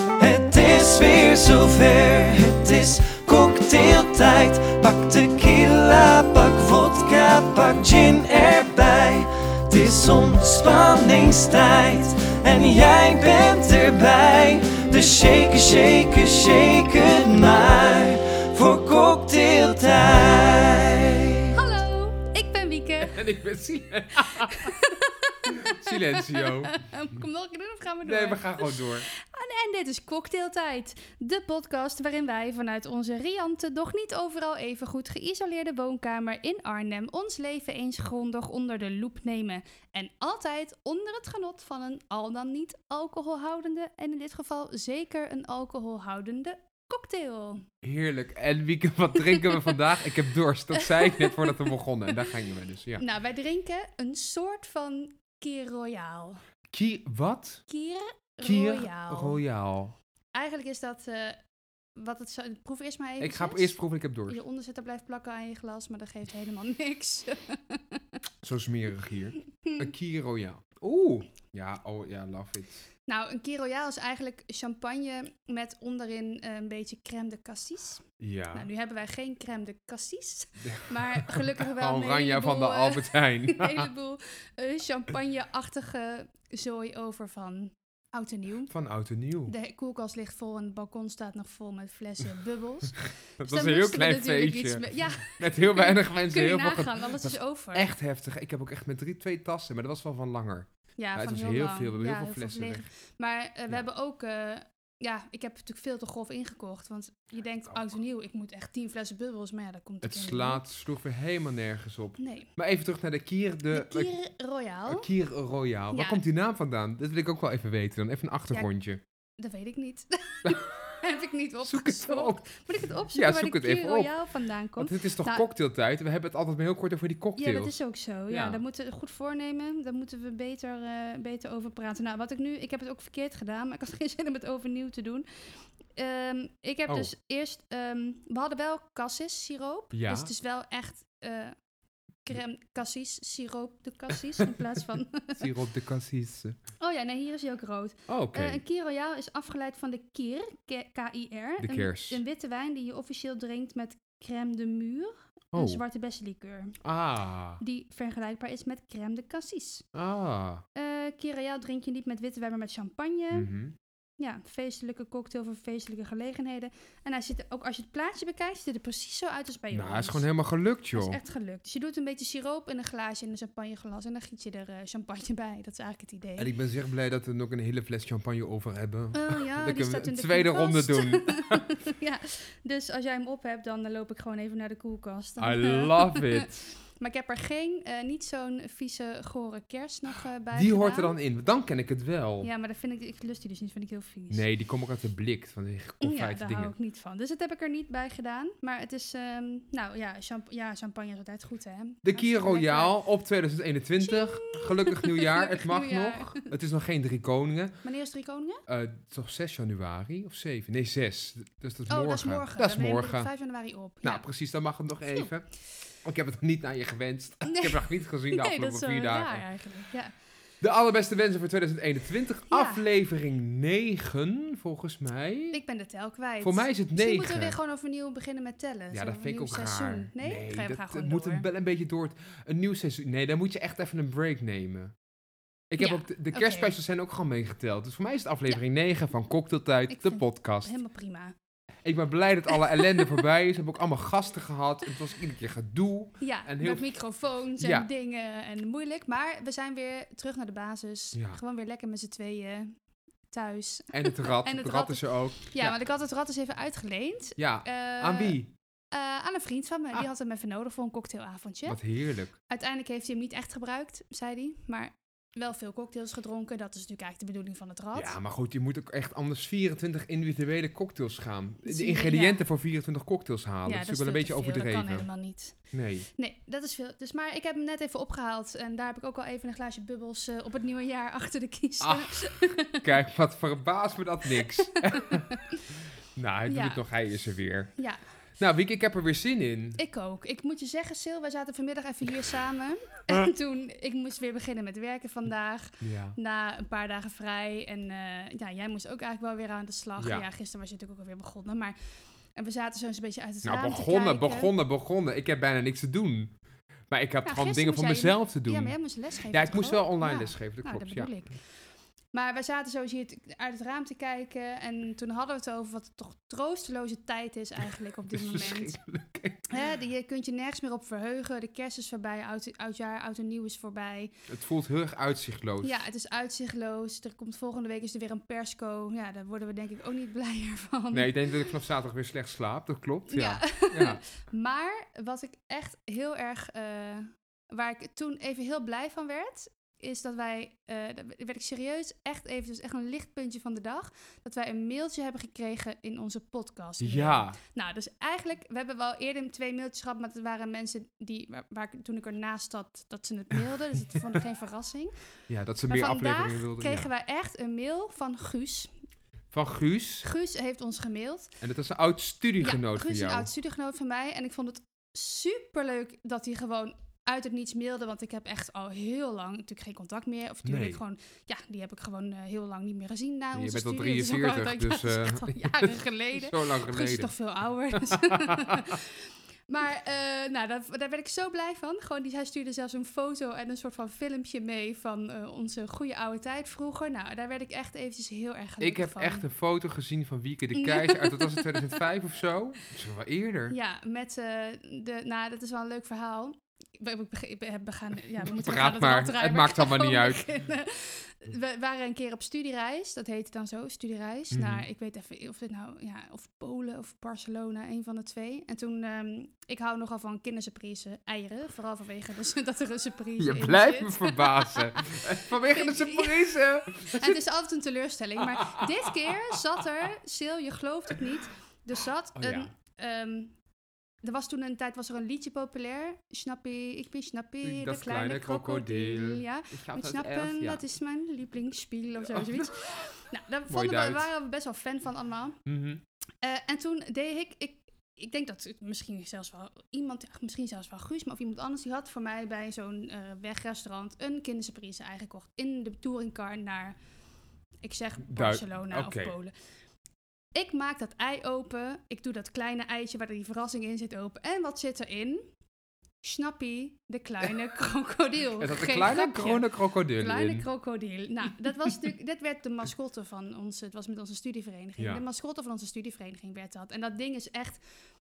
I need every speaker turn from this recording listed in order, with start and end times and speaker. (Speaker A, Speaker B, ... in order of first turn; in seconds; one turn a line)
Speaker A: 0.2-21.5
Speaker B: 21.5-23.2
Speaker C: 23.0-24.7
Speaker B: 24.3-47.6
Speaker C: 25.5-26.8
Speaker C: 28.0-29.1
Speaker C: 47.8-53.0
Speaker B: 49.3-49.7
Speaker B: 50.7-52.2
Speaker B: 53.0-56.4
Speaker C: 56.7-57.6
Speaker B: 57.7-59.4
Speaker C: 58.4-59.9
Speaker B: 60.3-61.4
Speaker B: 62.0-63.7
Speaker C: 63.2-64.4
Speaker B: 64.3-68.0
Speaker C: 68.4-72.8
Speaker B: 69.6-69.9
Speaker B: 73.1-88.7
Speaker C: 78.2-78.7
Speaker C: 80.6-83.9
Speaker C: 88.7-89.5
Speaker B: 89.5-97.9
Speaker C: 93.4-102.9
Speaker B: 101.0-110.6
Speaker C: 110.0-114.1
Speaker B: 112.2-112.5
Speaker B: 113.7-115.1
Speaker C: 114.9-119.0
Speaker B: 115.9-116.2
Speaker B: 119.4-125.5
Speaker C: 121.6-122.5
Speaker C: 123.1-124.1
Speaker C: 124.8-127.8
Speaker B: 127.4-135.2
Speaker C: 128.3-128.6
Speaker B: 135.9-141.5
Speaker C: 139.9-140.3
Speaker B: 142.2-145.4
Speaker C: 145.4-146.6
Speaker B: 146.8-156.8
Speaker C: 148.1-148.6
Speaker C: 151.6-152.2
Speaker C: 155.5-155.8
Speaker C: 156.8-157.6
Speaker B: 157.6-159.8
Speaker C: 159.9-160.6
Speaker B: 160.7-163.5
Speaker C: 163.3-163.8
Speaker B: 164.2-170.3
Speaker C: 169.7-171.2
Speaker B: 170.9-176.5
Speaker C: 176.4-181.7
Speaker B: 179.1-191.2
Speaker C: 185.4-186.6
Speaker C: 190.5-192.5
Speaker B: 192.4-194.4
Speaker C: 194.3-196.7
Speaker B: 196.0-202.9
Speaker C: 202.0-207.8
Speaker B: 204.0-206.5
Speaker B: 207.8-208.6
Speaker C: 208.7-213.3
Speaker B: 211.9-214.2
Speaker C: 214.0-219.4
Speaker B: 217.4-220.1
Speaker C: 220.6-225.6
Speaker B: 222.5-222.8
Speaker B: 225.5-231.4
Speaker C: 226.4-227.6
Speaker C: 228.9-234.9
Speaker C: 235.7-240.7
Speaker B: 235.8-236.8
Speaker B: 239.9-241.3
Speaker C: 241.8-246.8
Speaker B: 242.8-243.2
Speaker B: 246.2-252.8
Speaker C: 247.6-247.9
Speaker C: 251.1-251.4
Speaker B: 253.3-258.4
Speaker C: 253.9-255.8
Speaker C: 257.4-258.5
Speaker B: 258.9-261.8
Speaker C: 261.7-262.3
Speaker B: 262.5-268.1
Speaker C: 267.9-275.1
Speaker B: 271.6-272.4
Speaker B: 273.6-282.9
Speaker C: 275.7-276.1
Speaker C: 281.8-282.2
Speaker C: 282.7-285.4
Speaker B: 284.3-285.6
Speaker C: 286.1-287.7
Speaker B: 286.5-286.8
Speaker C: 288.4-289.8
Speaker B: 289.8-301.8
Speaker C: 295.8-296.1
Speaker C: 300.0-300.2
Speaker B: 302.4-304.5
Speaker C: 303.4-306.3
Speaker C: 306.9-308.7
Speaker B: 307.2-311.4
Speaker C: 309.3-311.1
Speaker B: 312.1-318.8
Speaker C: 318.1-319.6
Speaker B: 319.5-324.1
Speaker C: 324.3-325.8
Speaker B: 325.6-331.5
Speaker C: 330.9-334.0
Speaker B: 333.1-354.9
Speaker C: 346.8-347.4
Speaker C: 355.3-356.9
Speaker B: 355.7-358.7
Speaker C: 359.3-360.1
Speaker B: 360.0-361.3
Speaker C: 361.4-363.3
Speaker B: 362.4-389.2
Speaker C: 370.4-370.8
Speaker C: 373.3-377.1
Speaker C: 377.7-378.8
Speaker C: 388.6-393.6
Speaker B: 390.5-391.8
Speaker B: 393.5-423.3
Speaker C: 398.2-400.3
Speaker C: 404.3-404.6
Speaker C: 413.2-417.2
Speaker C: 418.2-419.4
Speaker C: 422.2-422.5
Speaker B: 424.0-435.4
Speaker C: 427.4-430.6
Speaker C: 432.0-432.5
Speaker C: 433.5-434.1
Speaker C: 435.4-435.8
Speaker B: 436.2-446.8
Speaker B: 447.6-449.3
Speaker C: 448.1-449.1
Speaker B: 450.3-455.3
Speaker B: 456.0-467.6
Speaker C: 458.4-460.5
Speaker C: 464.8-465.0